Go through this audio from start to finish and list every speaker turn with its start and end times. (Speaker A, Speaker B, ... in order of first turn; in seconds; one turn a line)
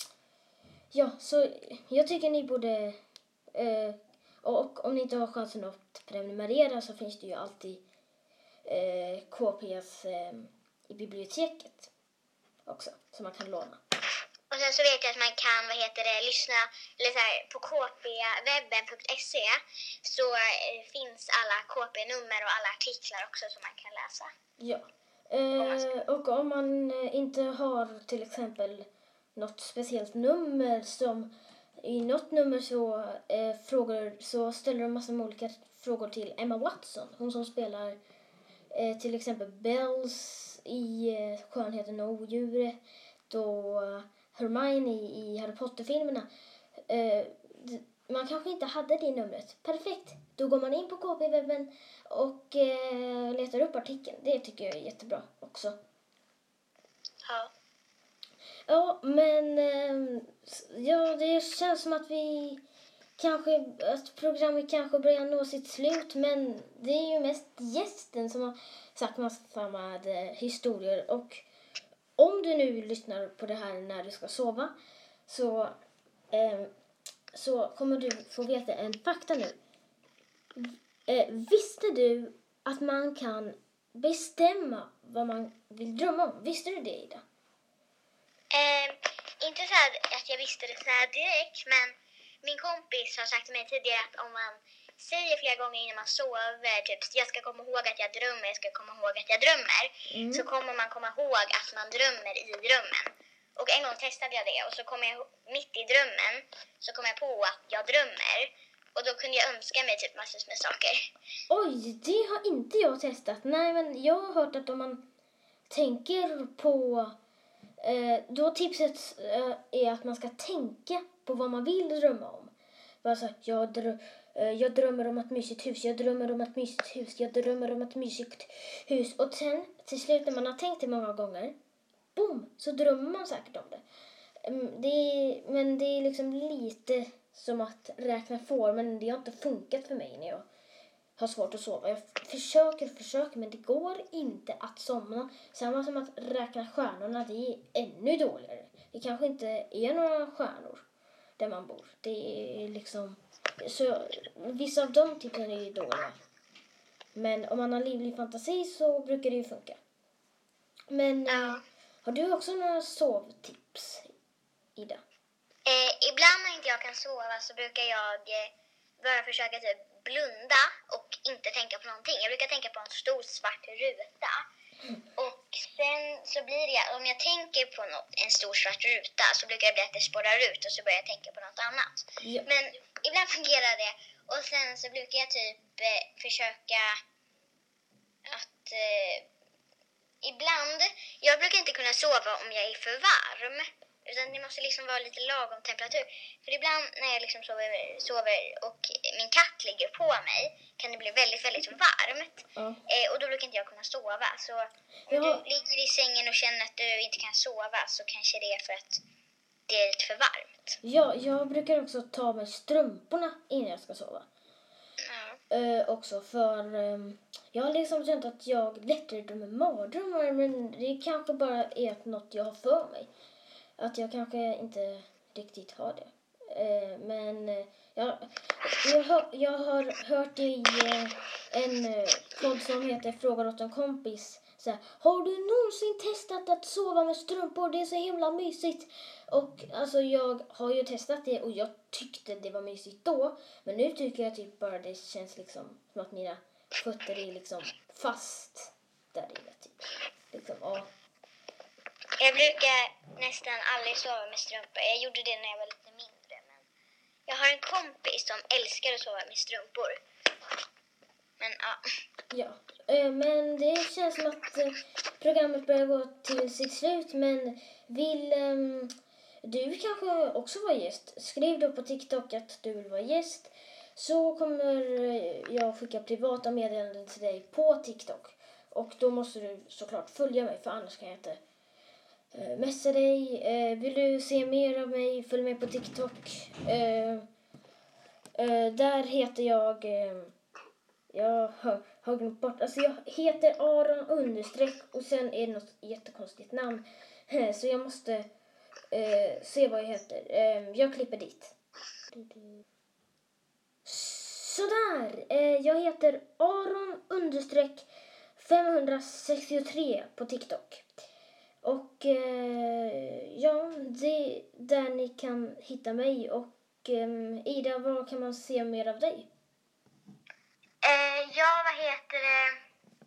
Speaker A: 0.9-3.0
Speaker A: 3.5-7.8
Speaker A: 8.7-11.9
Speaker A: 12.7-13.8
Speaker B: 14.5-24.3
Speaker A: 24.6-31.3
Speaker B: 25.6-25.9
Speaker A: 31.8-38.0
Speaker A: 38.7-42.8
Speaker A: 43.3-46.3
Speaker A: 46.9-55.8
Speaker B: 57.3-57.5
Speaker A: 58.7-62.6
Speaker A: 63.2-71.4
Speaker A: 72.2-74.7
Speaker A: 75.3-75.7
Speaker A: 76.3-76.7
Speaker A: 77.3-79.6
Speaker A: 80.6-87.2
Speaker B: 88.5-111.1
Speaker A: 100.1-100.5
Speaker A: 111.5-115.0
Speaker A: 115.7-117.2
Speaker A: 117.8-131.6
Speaker A: 132.2-133.8
Speaker A: 134.4-140.5
Speaker A: 141.2-150.8
Speaker A: 151.4-156.2
Speaker A: 157.2-159.8
Speaker A: 160.9-164.1
Speaker B: 161.3-161.6
Speaker A: 164.8-165.0
Speaker B: 165.7-174.4
Speaker B: 175.2-187.0
Speaker A: 182.2-182.5
Speaker B: 188.3-189.3
Speaker B: 190.2-209.0
Speaker A: 202.6-202.8
Speaker A: 205.1-205.4
Speaker B: 209.7-210.8
Speaker A: 210.8-214.3
Speaker B: 215.1-215.4
Speaker A: 215.5-223.1
Speaker A: 223.8-250.9
Speaker B: 252.2-256.6
Speaker B: 257.3-260.0
Speaker B: 261.4-261.8
Speaker A: 262.3-268.9
Speaker A: 269.4-281.4
Speaker A: 282.3-287.3
Speaker A: 288.4-290.3
Speaker A: 291.1-298.3
Speaker A: 298.9-301.5
Speaker A: 302.1-302.6
Speaker A: 303.9-310.9
Speaker A: 311.6-319.3
Speaker B: 320.8-322.6